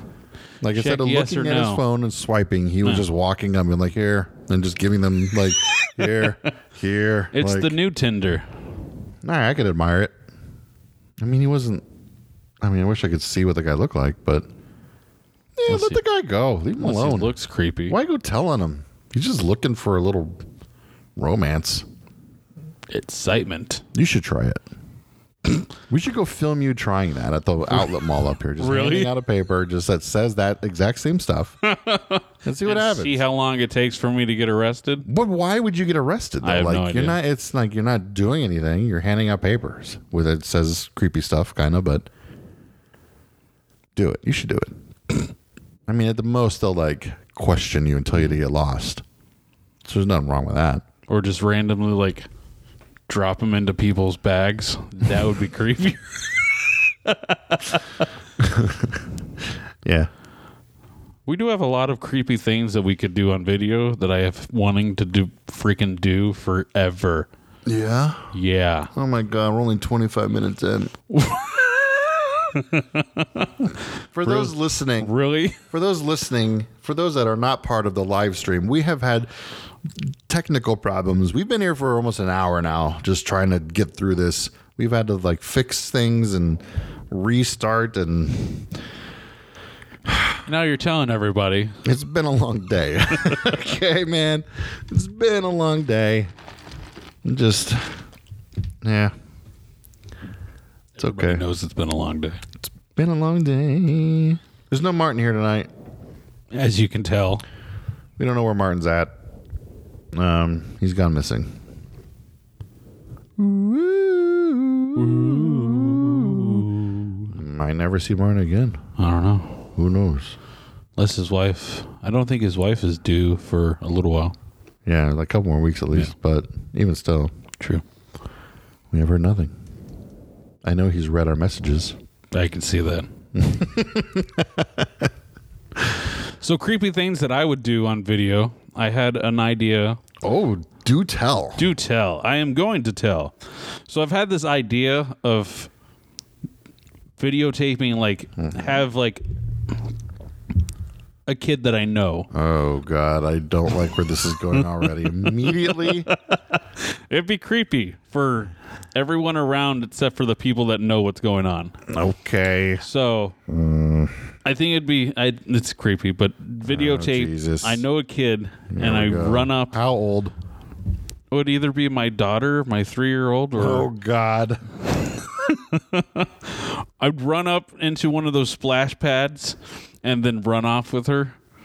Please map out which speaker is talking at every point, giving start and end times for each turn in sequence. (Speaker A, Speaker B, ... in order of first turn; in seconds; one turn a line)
Speaker A: 0.6-7.8
Speaker B: 0.7-1.8
Speaker B: 7.3-8.5
Speaker A: 9.2-10.1
Speaker A: 11.2-11.8
Speaker A: 12.6-14.5
Speaker A: 15.6-17.3
Speaker B: 15.7-16.0
Speaker B: 16.8-18.0
Speaker A: 17.9-20.4
Speaker A: 21.2-21.9
Speaker B: 22.9-23.9
Speaker A: 23.9-24.6
Speaker A: 25.8-31.6
Speaker B: 28.6-29.1
Speaker B: 31.6-35.1
Speaker A: 32.5-33.2
Speaker A: 35.1-42.1
Speaker B: 36.4-37.2
Speaker A: 44.0-45.3
Speaker A: 45.9-49.0
Speaker A: 49.8-50.8
Speaker B: 51.1-52.3
Speaker B: 53.1-57.8
Speaker A: 58.4-59.0
Speaker A: 59.8-60.1
Speaker B: 61.3-67.3
Speaker A: 67.7-68.3
Speaker B: 68.3-68.9
Speaker A: 68.9-70.9
Speaker B: 71.1-75.6
Speaker A: 74.1-75.1
Speaker A: 75.7-79.3
Speaker A: 80.0-88.7
Speaker A: 90.1-90.4
Speaker B: 90.5-91.8
Speaker A: 91.8-96.3
Speaker A: 97.2-98.0
Speaker A: 98.8-99.1
Speaker B: 101.0-102.4
Speaker A: 101.0-101.4
Speaker A: 102.9-105.7
Speaker B: 106.5-107.4
Speaker A: 108.2-109.1
Speaker A: 110.1-111.5
Speaker A: 113.4-116.7
Speaker B: 115.0-117.3
Speaker A: 117.3-118.8
Speaker B: 119.0-119.6
Speaker A: 119.8-120.4
Speaker B: 121.0-124.3
Speaker A: 124.9-127.3
Speaker A: 128.9-129.5
Speaker A: 130.6-132.0
Speaker B: 132.3-133.1
Speaker A: 133.3-135.1
Speaker B: 136.4-140.0
Speaker A: 140.2-141.7
Speaker B: 141.6-145.7
Speaker B: 147.2-149.2
Speaker A: 148.4-148.8
Speaker B: 151.3-152.3
Speaker A: 152.3-156.1
Speaker B: 155.1-161.8
Speaker A: 161.9-162.8
Speaker B: 162.8-163.4
Speaker A: 163.5-164.2
Speaker B: 164.4-169.8
Speaker A: 166.7-167.8
Speaker A: 168.7-170.3
Speaker B: 171.3-173.9
Speaker A: 173.6-174.7
Speaker B: 175.5-181.4